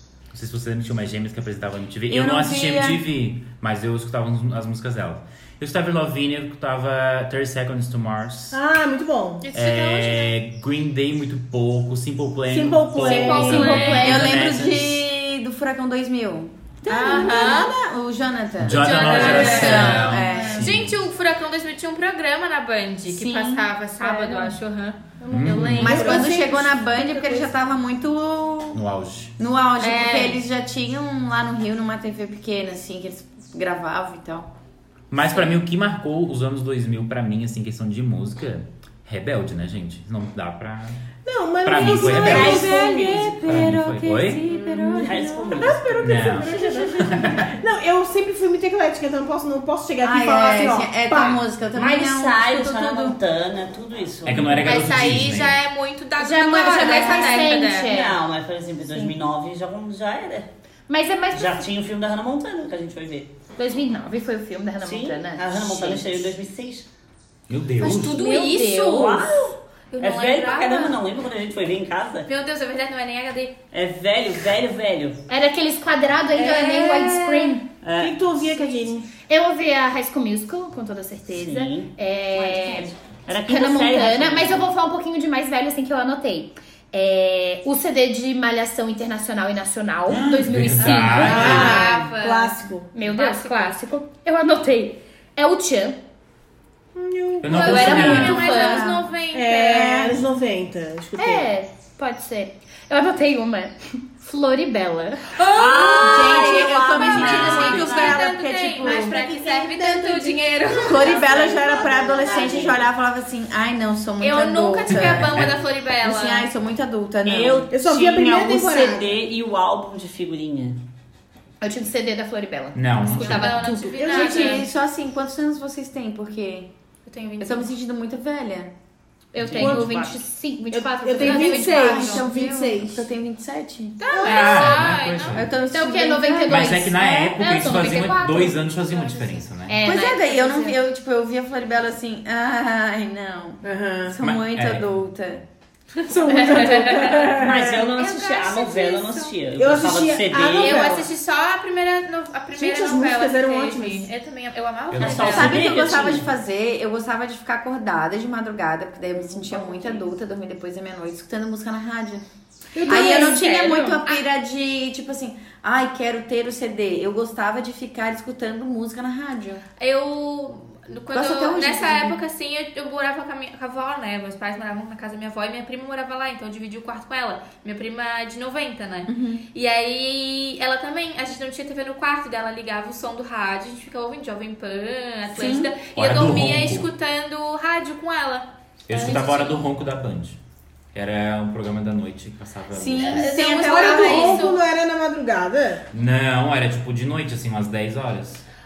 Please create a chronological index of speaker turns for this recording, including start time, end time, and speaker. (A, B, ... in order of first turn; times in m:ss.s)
0:00.3-0:08.6 A
0:02.1-0:03.0 B
0:08.5-0:09.5 C
0:09.4-0:10.3 D
0:09.5-0:15.0 A
0:12.5-0:13.9 C
0:13.0-0:14.3 D
0:13.0-0:14.3 E
0:14.0-0:20.8 B
0:16.9-0:17.7 D
0:18.6-0:20.9 A
0:18.8-0:25.0 D
0:19.3-0:19.8 E
0:23.0-0:23.7 B
0:24.0-0:24.5 E
0:25.2-0:27.4 C
0:25.3-0:26.2 A
0:25.4-0:26.1 E
0:25.8-0:28.8 B
0:28.7-0:29.3 A
0:29.4-0:34.5 B
0:29.8-0:30.4 D
0:35.1-0:41.0 A
0:41.2-0:43.6 C
0:41.6-0:42.7 A
0:41.8-0:43.7 F
0:42.0-0:45.5 B
0:43.4-0:44.4 A
0:44.4-0:51.4 C
0:45.0-0:46.0 F
0:46.0-0:46.5 A
0:46.5-0:47.4 E
0:47.0-0:47.5 A
0:50.0-0:53.2 B
0:51.7-0:55.2 F
0:54.2-0:55.6 A
0:54.6-0:57.9 D
0:56.2-0:58.2 E
0:56.8-1:00.5 F
1:00.9-1:01.7 E
1:01.3-1:03.3 F
1:03.6-1:06.2 E
1:04.8-1:06.9 F
1:07.5-1:08.2 A
1:07.8-1:09.3 D
1:07.8-1:09.2 E
1:08.9-1:12.3 F
1:09.9-1:11.0 D
1:12.3-1:13.6 D
1:13.7-1:15.2 F
1:15.3-1:17.6 E
1:16.4-1:17.2 C
1:17.5-1:18.2 F
1:18.0-1:19.1 C
1:19.2-1:32.0 E
1:21.3-1:24.6 F
1:30.1-1:31.8 A
1:30.8-1:33.8 D
1:31.2-1:32.9 C
1:32.9-1:36.0 E
1:36.9-1:38.2 C
1:37.4-1:38.5 A
1:37.5-1:38.9 E
1:37.5-1:40.0 D
1:38.4-1:39.1 B
1:39.3-1:41.5 C
1:41.2-1:45.7 E
1:45.4-1:52.6 D
1:45.5-1:48.2 F
1:45.8-1:50.0 B
1:47.1-1:47.9 A
1:48.8-1:49.2 C
1:49.7-1:52.8 C
1:50.7-1:57.7 B
1:52.3-1:52.8 F
1:54.2-1:56.5 D
1:54.9-1:55.6 A
1:57.2-2:00.8 F
1:57.7-1:59.1 C
2:01.6-2:04.6 E
2:02.7-2:03.6 A
2:03.1-2:04.7 D
2:04.1-2:06.7 B
2:07.0-2:07.7 D
2:07.4-2:08.7 B
2:09.3-2:12.1 E
2:09.4-2:10.2 F
2:09.6-2:10.0 C
2:10.7-2:13.1 C
2:11.2-2:12.2 D
2:11.6-2:14.0 B
2:14.0-2:15.4 D
2:14.1-2:14.7 C
2:14.2-2:15.5 A
2:15.3-2:17.3 B
2:15.7-2:18.7 E
2:16.4-2:19.8 A
2:19.7-2:20.8 E
2:19.8-2:25.4 B
2:23.6-2:24.2 C
2:24.2-2:24.9 A
2:26.1-2:27.9 C
2:26.2-2:29.3 D
2:27.3-2:31.0 F
2:29.5-2:31.1 C
2:30.6-2:35.6 D
2:32.6-2:34.1 C
2:34.9-2:35.7 A
2:34.9-2:36.3 F
2:35.3-2:42.2 B
2:39.4-2:39.8 C
2:42.7-2:44.0 C
2:42.8-2:44.2 D
2:42.8-2:49.6 B
2:49.8-3:09.6 D
2:51.1-2:52.2 B
2:59.1-2:59.4 B
3:05.3-3:05.7 B
3:05.9-3:06.9 A
3:08.9-3:10.4 A
3:10.9-3:13.2 A
3:12.7-3:14.5 B
3:13.0-3:14.6 D
3:13.2-3:15.8 C
3:15.9-3:18.4 A